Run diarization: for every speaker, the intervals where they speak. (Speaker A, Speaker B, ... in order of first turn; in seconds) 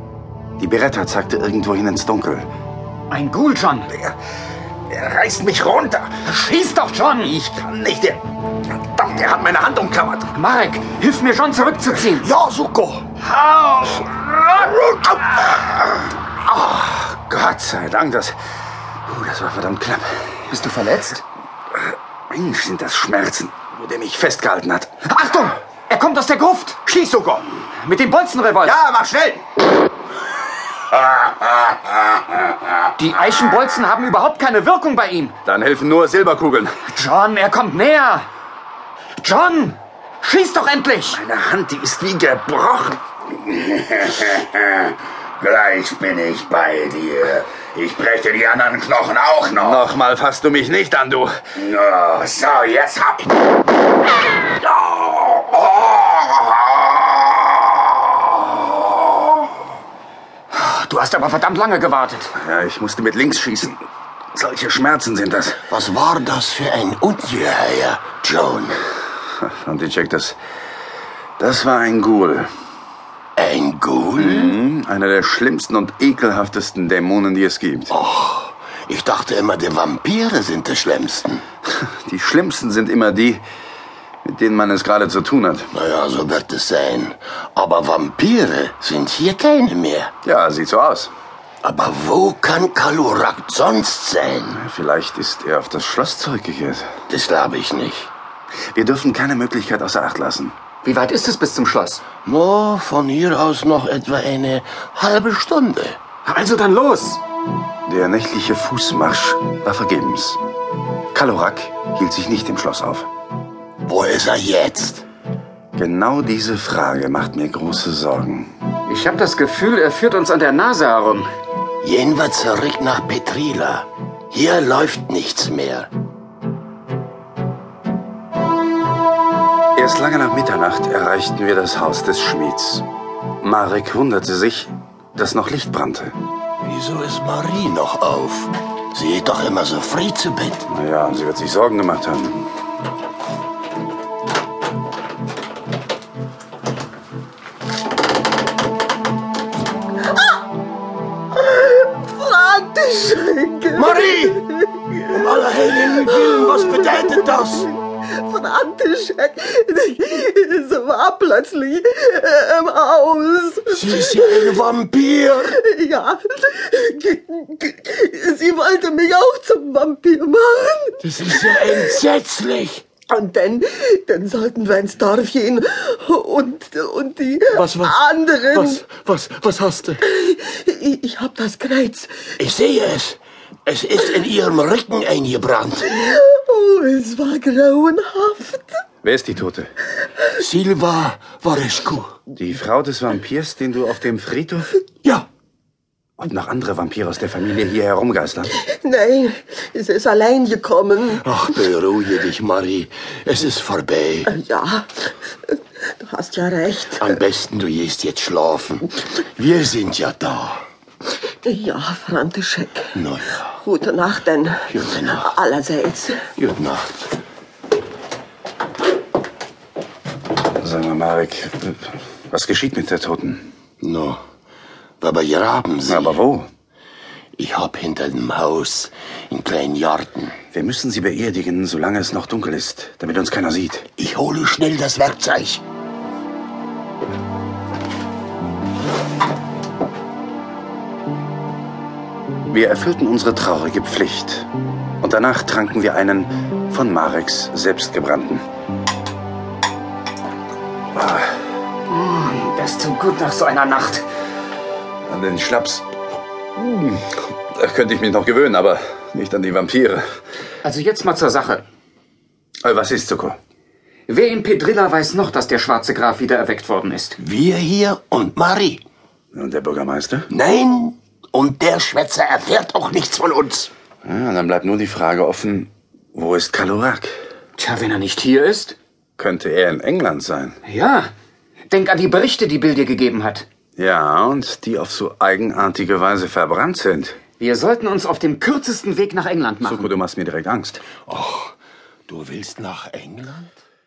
Speaker A: 0.6-2.5, 4.9-6.2, 7.2-8.2, 8.7-10.3, 12.3-12.9, 14.0-15.7, 16.2-18.4, 19.1-20.4, 22.3-24.9, 28.6-29.4, 31.1-31.6, 35.4-36.8, 41.1-44.9, 49.5-52.0, 54.6-56.7, 62.3-63.8, 64.3-65.7, 69.4-70.4, 71.4-72.5, 74.2-77.9, 81.8-83.4, 84.2-85.7, 90.2-91.1, 94.5-96.9, 98.7-100.5, 107.9-110.4, 111.1-113.1, 115.8-118.5, 129.7-132.8, 133.4-136.1, 140.7-142.5, 189.0-189.7, 192.3-194.8, 196.2-198.6, 220.6-223.5, 225.9-226.5, 230.5-233.8, 242.5-244.5, 245.0-248.4, 250.9-251.3, 255.1-255.8, 256.6-260.0, 262.6-263.4, 269.3-270.3, 274.0-277.1, 279.2-280.6, 283.8-287.2, 289.6-290.8
Speaker B: 3.1-3.9, 6.2-7.3, 10.3-12.3, 13.2-14.0, 20.5-21.2, 25.0-28.8, 33.0-35.3, 36.9-38.3, 39.2-41.2, 60.5-62.3, 100.8-102.0, 106.2-107.2, 118.9-121.3, 251.9-254.1, 260.6-261.6, 264.1-267.2, 277.6-278.8, 280.6-281.1, 281.7-283.4, 287.4-289.9
Speaker C: 12.4-12.9, 65.7-68.8, 73.3-74.5, 77.9-81.4, 85.7-90.1, 91.6-94.6, 97.1-98.1, 102.2-106.0, 113.8-115.0, 121.8-125.9, 136.6-140.7, 153.7-154.4, 155.1-157.7, 163.7-165.6, 171.0-172.8, 177.5-178.0, 178.5-180.0, 182.4-186.0, 190.4-192.1, 201.2-204.3, 206.9-210.6, 212.9-213.4, 214.7-215.3, 216.3-217.1, 223.8-224.2, 225.0-226.2, 227.3-230.4, 234.0-235.6, 267.2-268.8, 270.3-273.7, 291.1-291.5, 292.1-293.6
Speaker D: 45.4-49.5, 51.7-53.2
Speaker E: 151.3-155.0, 156.0-164.6, 165.5-172.0, 173.1-178.8, 180.0-182.3, 185.9-188.8, 198.6-201.2, 204.3-207.1, 211.4-213.0, 213.5-216.2